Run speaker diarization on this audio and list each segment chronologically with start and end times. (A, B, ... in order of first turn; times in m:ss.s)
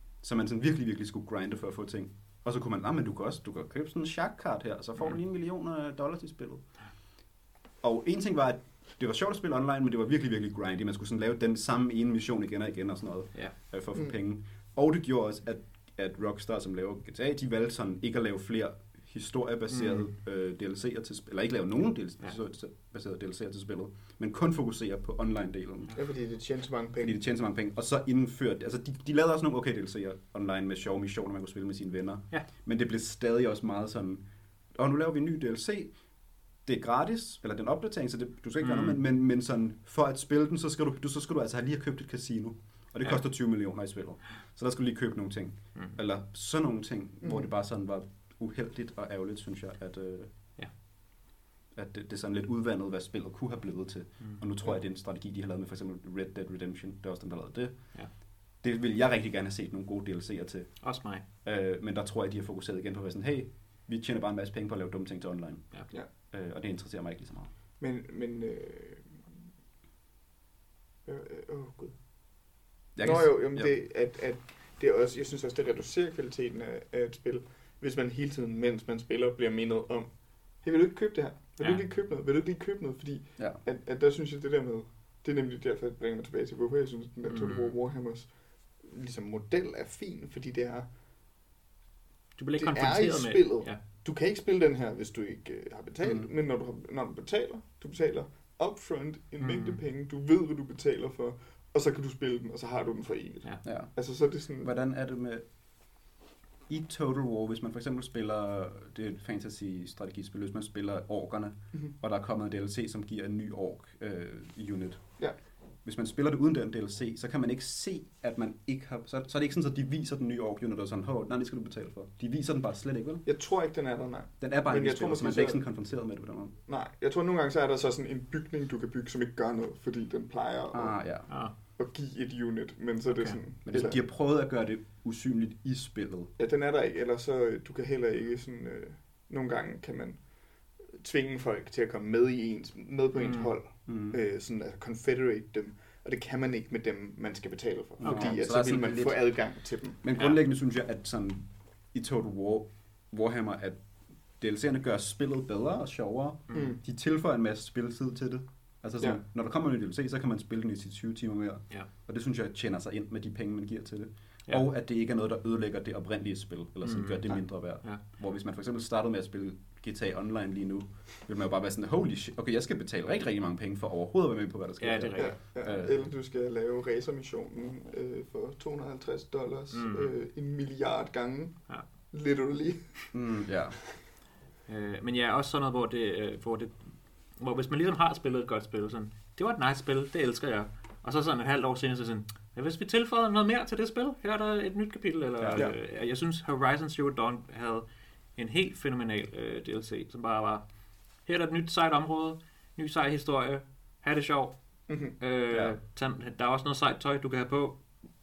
0:00.2-0:06.6 A
0:07.8-0:26.0 A
0:19.7-0:20.1 B
0:26.0-0:27.2 C
0:27.0-0:34.2 A
0:34.7-0:35.9 A
0:36.6-0:50.3 A
0:38.6-0:39.0 B
0:47.2-0:47.5 C
0:51.7-0:57.8 A
0:58.6-1:00.8 A
1:00.8-1:01.2 B
1:01.4-1:05.7 A
1:06.3-1:07.5 A
1:07.8-1:09.2 C
1:11.0-1:11.9 C
1:13.0-1:13.7 A
1:13.0-1:20.1 C
1:20.6-1:28.3 C
1:21.6-1:21.8 B
1:27.3-1:27.7 B
1:28.8-1:30.9 C
1:32.4-1:33.8 B
1:32.6-1:44.7 C
1:36.0-1:36.3 A
1:39.4-1:39.8 B
1:43.6-1:43.9 A
1:44.6-1:45.4 A
1:46.7-1:55.0 A
1:55.8-2:03.2 A
2:03.2-2:05.6 C
2:04.4-2:06.6 A
2:06.7-2:11.0 C
2:10.7-2:11.3 A
2:11.3-2:11.5 B
2:11.8-2:14.0 C
2:13.1-2:13.4 B
2:13.6-2:16.3 A
2:16.4-2:20.2 C
2:20.9-2:30.0 C
2:23.2-2:23.5 B
2:23.9-2:24.2 A
2:28.0-2:29.3 A
2:28.0-2:28.4 B
2:30.0-2:33.8 A
2:34.4-2:56.1 A
2:36.5-2:36.8 C
2:46.8-2:48.0 B
2:54.8-2:55.4 B
2:55.2-3:03.1 C
2:59.7-3:00.1 B
3:03.1-3:03.8 A
3:04.7-3:06.8 B
3:07.4-3:20.6 B
3:15.4-3:15.7 A
3:21.2-3:24.6 B
3:24.9-3:25.2 C
3:25.1-3:27.8 B
3:25.5-3:25.8 A